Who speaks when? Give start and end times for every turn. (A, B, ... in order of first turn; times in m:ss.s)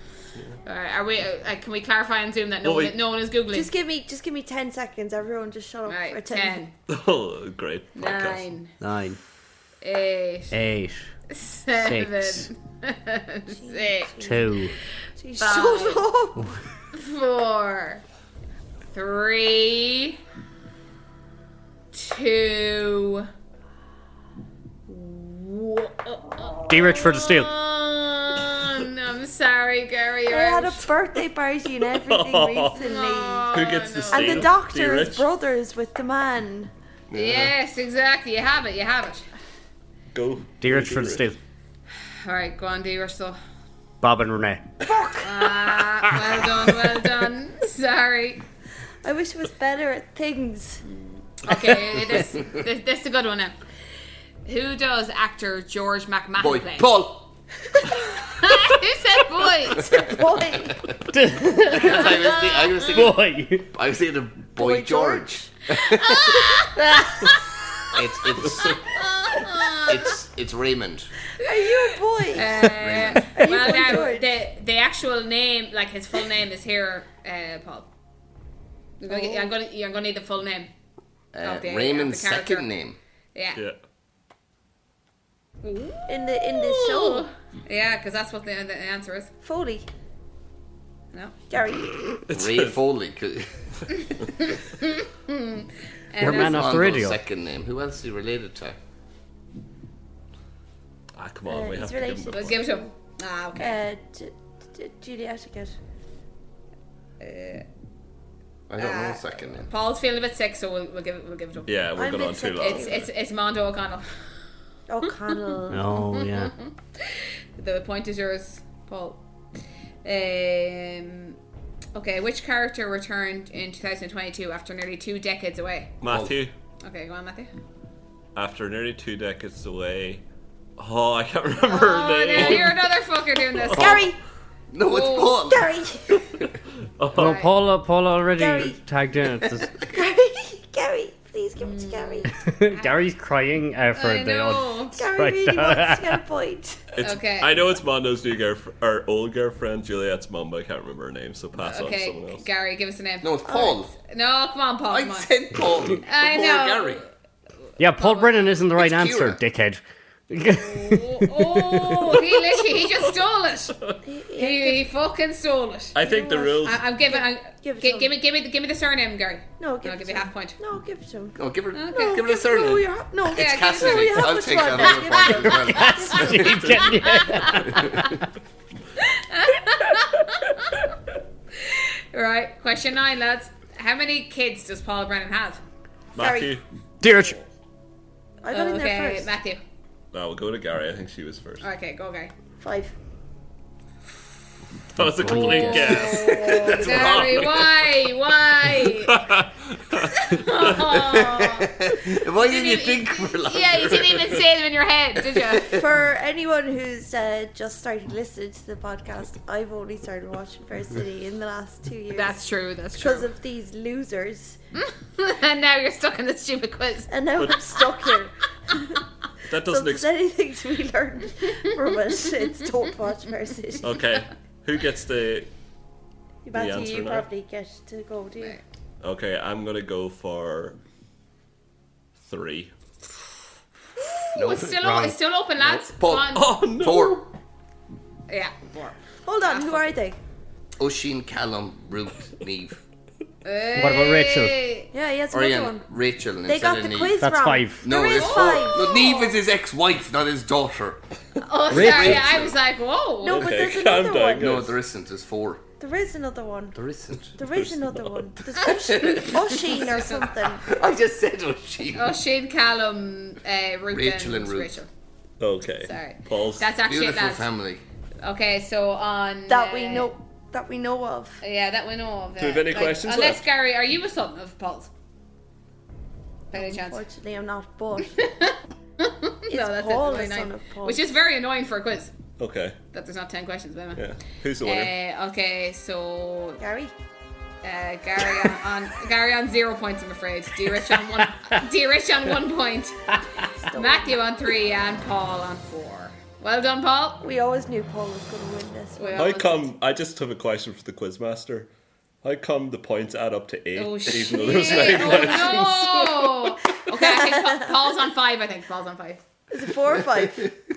0:00.6-0:03.7 A
0:02.6-0:02.9 B
0:03.5-0:06.6 C
0:05.9-0:06.7 A
0:06.9-0:08.5 B
0:07.9-0:08.7 A
0:08.8-0:09.2 D
0:09.8-0:10.5 A
0:10.5-0:11.1 D
0:11.3-0:14.4 A
0:11.8-0:12.5 D
0:13.5-0:14.5 C
0:14.2-0:14.8 D
0:15.2-0:16.6 C
0:15.4-0:16.1 A
0:16.9-0:18.0 A
0:18.9-0:20.2 A
0:21.9-0:23.3 A
0:24.9-0:30.9 A
0:26.7-0:27.5 D
0:30.3-0:33.6 C
0:32.0-0:32.8 B
0:32.7-0:34.5 A
0:33.5-0:35.3 B
0:34.1-0:36.7 C
0:37.1-0:37.5 B
0:37.1-0:39.3 A
0:40.1-0:41.2 B
0:40.6-0:41.4 D
0:42.1-0:43.4 A
0:44.0-0:44.7 D
0:44.8-0:45.6 C
0:45.2-0:48.4 A
0:49.0-0:50.8 C
0:50.8-0:53.6 A
0:52.3-0:52.6 E
0:54.4-0:56.9 A
0:56.4-0:57.3 E
0:57.8-0:58.3 C
0:58.3-1:00.2 A
0:59.8-1:01.0 C
1:01.1-1:02.2 D
1:01.6-1:06.6 E
1:02.1-1:03.0 A
1:02.9-1:03.7 D
1:04.6-1:05.5 C
1:05.8-1:07.9 A
1:07.9-1:08.9 E
1:08.6-1:10.1 A
1:09.7-1:11.1 E
1:11.4-1:12.7 C
1:11.4-1:17.9 A
1:12.4-1:13.9 E
1:13.3-1:14.3 C
1:19.0-1:20.7 A
1:19.1-1:19.5 C
1:21.3-1:23.0 E
1:21.4-1:22.6 A
1:23.3-1:23.6 A
1:25.6-1:29.3 A
1:26.1-1:27.3 C
1:29.4-1:29.9 C
1:31.5-1:32.2 C
1:32.3-1:34.4 E
1:32.3-1:32.7 B
1:34.0-1:36.7 A
1:36.2-1:37.2 D
1:36.2-1:38.8 E
1:41.2-1:42.7 B
1:41.4-1:42.9 C
1:42.3-1:43.8 A
1:43.6-1:45.8 C
1:47.2-1:47.6 A
1:48.7-1:49.7 E
1:48.8-1:51.7 A
1:51.7-1:53.0 B
1:52.0-1:53.0 C
1:52.6-1:54.2 A
1:54.9-1:55.9 C
1:55.7-1:56.5 D
1:55.9-1:59.2 A
2:00.0-2:01.4 A
2:01.9-2:05.9 A
2:06.0-2:06.5 B
2:06.0-2:06.4 E
2:06.8-2:07.5 A
2:08.3-2:10.2 B
2:10.8-2:12.8 B
2:11.6-2:14.0 A
2:12.4-2:12.7 E
2:13.6-2:14.0 B
2:13.7-2:14.2 C
2:14.7-2:15.7 E
2:14.8-2:15.5 A
2:15.5-2:16.4 C
2:17.0-2:17.4 B
2:17.1-2:19.7 D
2:17.1-2:17.5 A
2:18.3-2:18.8 C
2:19.9-2:22.3 C
2:21.6-2:23.0 A
2:22.3-2:26.2 D
2:23.9-2:25.0 A
2:24.9-2:26.8 C
2:26.9-2:32.4 B
2:27.0-2:27.6 A
2:31.6-2:35.4 A
2:33.2-2:33.9 E
2:33.5-2:33.8 C
2:34.9-2:37.0 E
2:36.0-2:37.0 A
2:37.8-2:42.0 D
2:37.9-2:38.4 A
2:38.8-2:39.4 E
2:40.5-2:46.0 A
2:42.0-2:43.1 B
2:44.0-2:44.8 C
2:45.9-2:46.8 B
2:46.0-2:48.1 C
2:46.5-2:50.6 A
2:49.6-2:51.4 C
2:51.4-2:56.4 E
2:51.7-2:52.3 A
2:51.9-2:56.9 C
2:53.3-2:58.1 A
2:55.5-2:58.2 D
2:57.7-2:58.0 E
2:59.0-3:00.9 A
3:01.5-3:05.6 A
3:06.1-3:06.6 B
3:06.2-3:06.6 C
3:07.0-3:07.4 D
3:08.4-3:09.3 C
3:08.5-3:09.6 A
3:10.1-3:11.6 B
3:11.6-3:12.3 A
3:12.6-3:12.9 C
3:14.9-3:17.6 B
3:15.2-3:16.2 D
3:15.3-3:16.8 C
3:15.4-3:19.2 A
3:16.5-3:17.7 E
3:19.0-3:20.5 B
3:20.1-3:25.8 A
3:20.6-3:24.4 E
3:25.2-3:25.8 E
3:25.7-3:32.4 C
3:32.1-3:33.3 A
3:33.0-3:34.6 C
3:34.7-3:37.1 A
3:37.1-3:39.0 C
3:39.4-3:40.1 B
3:39.7-3:44.0 C
3:43.8-3:45.5 B
3:46.4-3:48.6 C
3:46.5-3:47.3 B
3:49.0-3:50.8 B
3:52.2-3:52.7 B
3:54.3-3:56.6 A
3:54.3-3:57.3 E
3:56.3-3:57.3 B
3:58.3-3:59.9 A
3:59.2-4:00.2 C
4:00.8-4:02.8 E
4:03.4-4:04.9 A
4:03.8-4:04.5 D
4:04.9-4:05.8 C
4:05.3-4:07.2 E
4:06.4-4:08.9 C
4:07.2-4:07.8 D
4:07.8-4:11.0 E
4:08.0-4:09.4 A
4:11.4-4:13.5 A
4:11.7-4:12.4 D
4:11.7-4:12.5 E
4:13.2-4:14.6 C
4:13.2-4:14.8 B
4:14.4-4:15.6 E
4:15.8-4:16.8 C
4:16.7-4:17.4 E
4:17.4-4:20.7 C
4:17.4-4:18.3 B
4:18.4-4:19.6 E
4:19.2-4:20.2 A
4:20.4-4:22.2 E
4:21.9-4:24.9 A
4:23.9-4:24.8 E
4:25.4-4:26.7 B
4:25.8-4:27.5 A
4:26.8-4:27.8 E
4:28.2-4:30.1 A
4:29.5-4:31.4 C
4:31.4-4:34.9 A
4:32.4-4:33.4 B
4:36.5-4:37.0 A
4:36.5-4:38.3 C
4:38.2-4:42.1 A
4:39.5-4:41.0 C
4:42.4-4:42.8 B
4:42.9-4:44.0 A
4:44.0-4:44.9 B
4:44.6-4:46.6 A
4:46.6-4:46.9 C
4:47.6-4:57.2 A
4:51.1-4:51.6 D
4:53.4-4:54.2 C
4:57.2-4:59.2 C
4:58.9-4:59.7 A
4:59.1-5:01.7 B
5:02.2-5:05.8 B
5:03.7-5:09.2 A
5:04.3-5:07.7 C
5:09.5-5:10.5 C
5:10.1-5:10.5 E